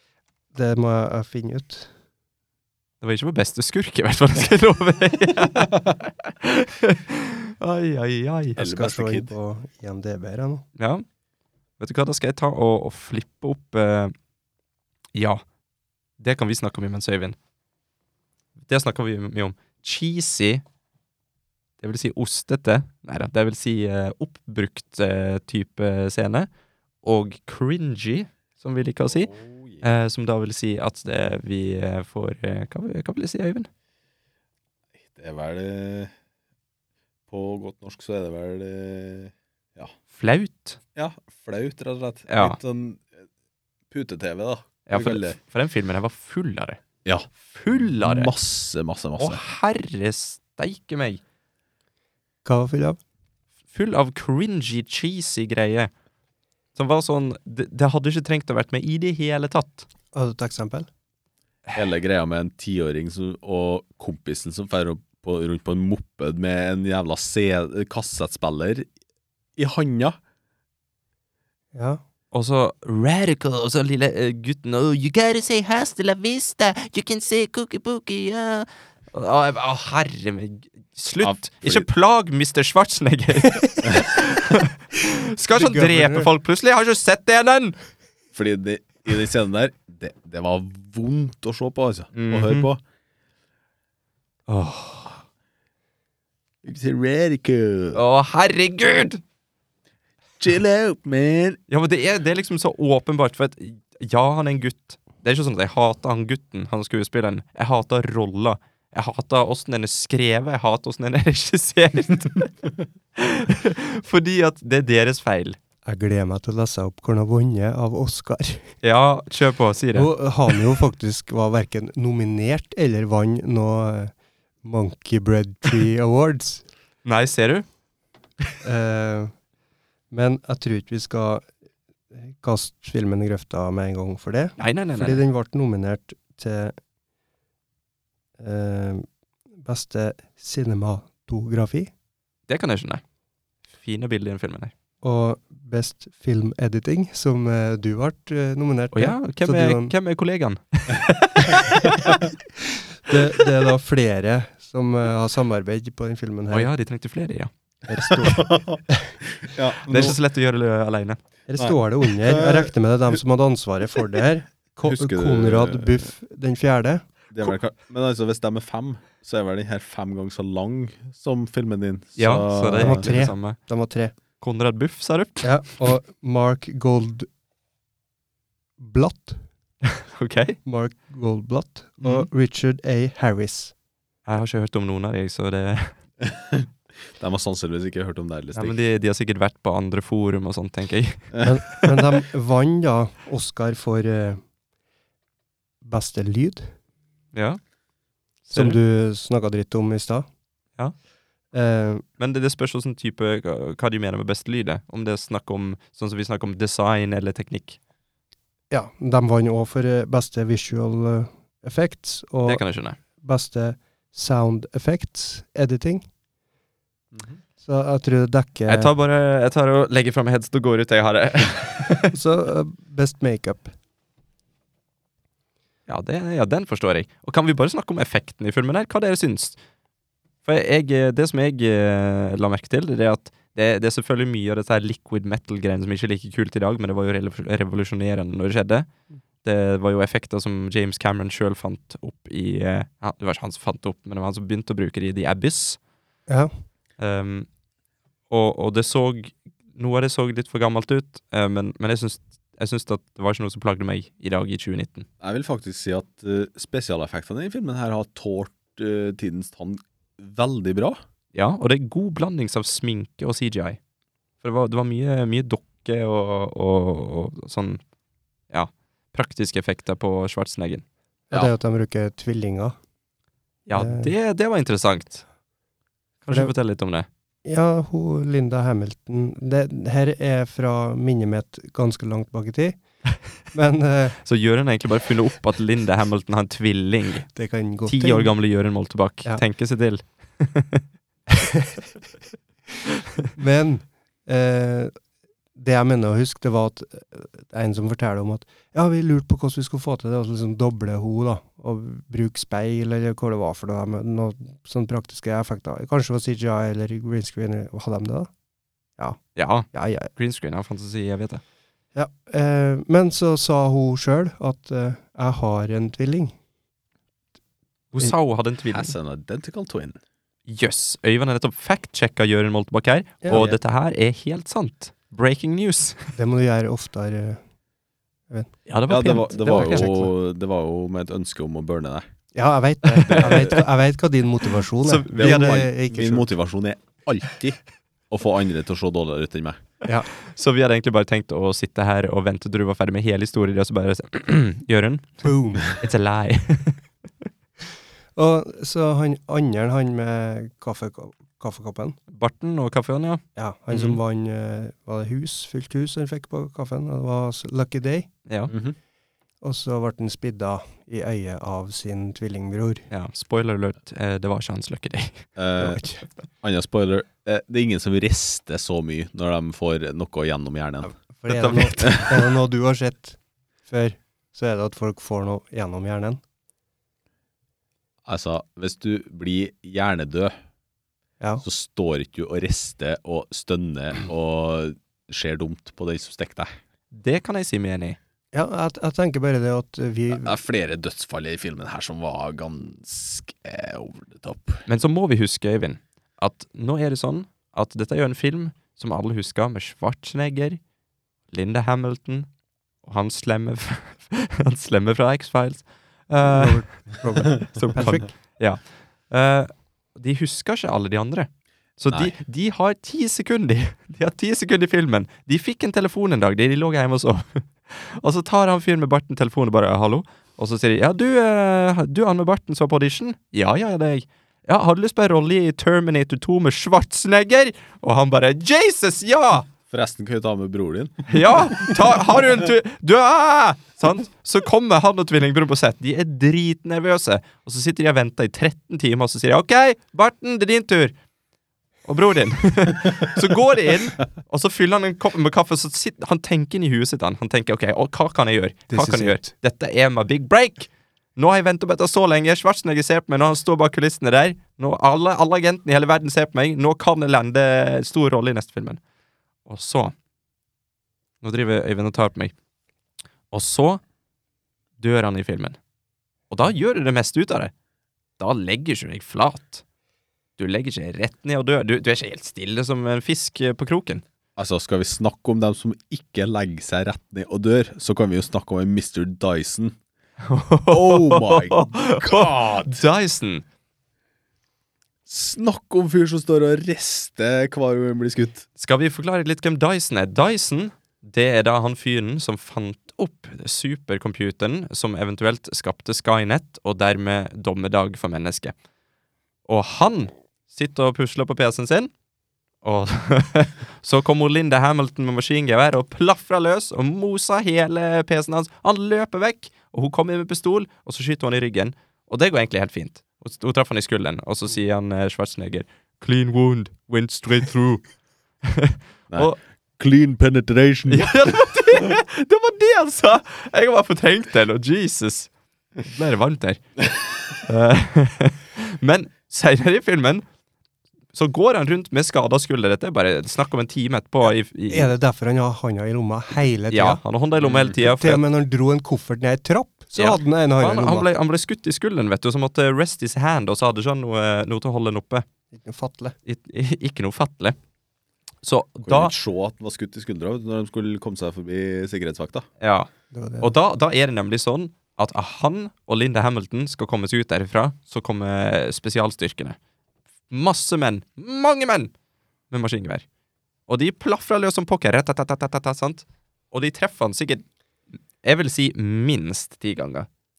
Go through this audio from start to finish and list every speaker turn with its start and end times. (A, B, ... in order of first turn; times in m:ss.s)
0:00.5-0:01.9 A
0:03.0-0:08.6 B
0:08.6-0:09.3 C
0:08.6-0:10.6 A
0:10.8-0:11.0 B
0:11.8-0:14.1 B
0:15.2-0:15.4 B
0:16.2-0:17.4 B
0:18.6-0:20.6 B
0:21.8-0:26.5 B
0:27.0-0:29.3 B
0:29.1-0:29.8 C
0:29.8-0:33.7 B
0:35.1-0:36.1 C
0:37.3-0:39.9 C
0:40.1-0:40.8 B
0:41.0-0:43.1 C
0:42.3-0:42.6 B
0:43.9-0:45.4 C
0:44.9-0:46.8 B
0:47.0-0:49.4 C
0:47.4-0:48.3 B
0:49.2-0:51.2 B
0:52.4-0:53.0 A
0:53.7-0:55.9 B
0:56.8-0:59.9 B
1:00.1-1:00.9 A
1:01.8-1:08.9 C
1:09.6-1:10.2 C
1:11.7-1:12.0 A
1:12.3-1:27.8 B
1:21.2-1:21.9 C
1:25.6-1:26.3 A
1:28.3-1:32.8 C
1:32.1-1:32.7 B
1:34.5-1:35.2 B
1:36.6-1:38.0 C
1:37.9-1:39.2 B
1:40.4-1:41.6 C
1:41.7-1:52.5 B
1:53.2-1:55.6 B
1:55.8-1:58.7 A
1:58.8-2:00.1 B
1:59.9-2:06.7 A
2:07.0-2:07.7 B
2:08.6-2:09.3 A
2:10.1-2:11.5 A
2:12.1-2:16.7 A
2:14.6-2:15.2 B
2:18.4-2:21.9 A
2:22.5-2:23.0 B
2:23.8-2:24.7 B
2:25.0-2:29.9 A
2:28.9-2:32.2 B
2:33.0-2:36.7 A
2:36.5-2:37.5 B
2:37.9-2:39.2 A
2:38.1-2:40.2 C
2:39.9-2:41.2 B
2:41.5-2:47.5 A
2:41.6-2:42.7 C
2:44.8-2:46.1 C
2:47.3-2:53.1 C
2:52.2-2:53.6 B
2:52.8-2:54.1 A
2:54.4-2:55.8 B
2:55.4-2:57.3 A
2:58.8-2:59.4 A
2:59.9-3:00.6 B
3:00.6-3:03.7 A
3:02.0-3:02.3 B
3:04.3-3:06.0 B
3:06.2-3:08.8 C
3:08.5-3:11.9 B
3:11.4-3:14.4 A
3:15.8-3:16.7 A
3:17.3-3:17.6 B
3:18.5-3:18.8 B
3:18.5-3:20.3 A
3:21.5-3:22.0 A
3:22.2-3:27.8 B
3:28.7-3:32.6 A
3:32.4-3:33.0 B
3:33.2-3:36.1 A
3:37.1-3:37.4 C
3:37.6-3:38.9 A
3:38.7-3:42.1 B
3:42.1-3:43.7 A
3:45.9-3:49.6 B
3:50.4-3:58.9 B
3:59.4-4:05.8 B
4:07.0-4:07.5 B
4:08.3-4:15.1 B
4:15.2-4:21.0 C
4:21.3-4:23.8 B
4:24.4-4:27.8 B
4:28.5-4:30.8 B
4:31.3-4:32.8 A
4:33.7-4:35.2 B
4:33.7-4:34.1 A
4:36.2-4:37.1 B
4:37.4-4:42.8 A
4:43.5-4:44.2 A
4:44.2-4:47.3 B
4:47.3-4:48.3 A
4:47.8-4:50.8 B
4:53.4-4:54.9 A
4:55.6-5:08.3 A
5:09.4-5:11.4 B
5:09.7-5:10.1 A
5:11.9-5:16.4 A
5:17.9-5:19.0 B
5:18.7-5:20.0 C
5:20.5-5:26.1 B
5:23.3-5:23.6 C
5:26.2-5:27.4 A
5:28.7-5:30.1 B
5:28.9-5:32.1 C
5:29.6-5:29.8 A
5:32.3-5:36.3 A
5:32.9-5:33.6 B
5:33.1-5:33.6 C
5:34.8-5:35.7 B
5:35.2-5:39.6 C
5:40.2-5:46.8 B
5:45.2-5:45.7 A
5:48.2-5:52.0 A
5:52.1-5:54.0 B
5:53.4-5:58.1 A
5:58.3-5:58.5 B
5:58.5-5:58.8 C
5:59.4-6:02.9 A
6:02.9-6:05.3 B
6:05.4-6:05.8 C
6:05.6-6:06.0 A
6:06.4-6:11.0 C
6:10.8-6:16.2 A
6:11.3-6:12.1 B
6:18.1-6:20.3 C
6:21.4-6:26.5 C
6:26.9-6:28.0 B
6:28.3-6:30.4 A
6:30.1-6:34.6 C
6:34.7-6:40.6 B
6:41.3-6:42.3 B
6:42.8-7:09.5 B
6:46.2-6:48.1 A
6:51.9-6:52.2 C
7:09.7-7:11.8 C
7:11.1-7:21.0 B
7:21.9-7:38.8 B
7:28.7-7:29.3 A
7:39.5-7:39.9 B
7:41.2-7:42.3 B
7:43.3-7:43.8 B
7:44.8-7:45.6 B
7:46.3-7:47.5 B
7:48.2-7:49.6 B
7:50.4-7:54.0 B
7:54.4-7:59.8 C
8:00.2-8:03.4 B
8:00.7-8:02.8 C
8:05.1-8:08.5 C
8:08.6-8:18.5 B
8:19.5-8:21.9 B
8:22.6-8:37.8 B
8:38.4-8:39.4 B
8:39.1-8:41.3 C
8:40.9-8:45.3 B
8:45.8-8:46.8 B
8:47.4-8:50.2 B
8:51.1-8:54.9 B
8:54.7-8:57.0 A
8:56.7-8:58.2 B
8:57.4-8:57.7 C
8:57.8-9:01.1 A
9:00.0-9:05.3 B
9:05.5-9:06.2 A
9:06.2-9:07.6 B
9:08.4-9:09.1 B
9:08.9-9:12.5 C
9:12.6-9:12.9 B
9:13.1-9:13.5 A
9:13.4-9:19.6 B
9:20.3-9:21.9 B
9:22.5-9:23.0 B
9:23.7-9:27.4 B
9:28.2-9:30.1 B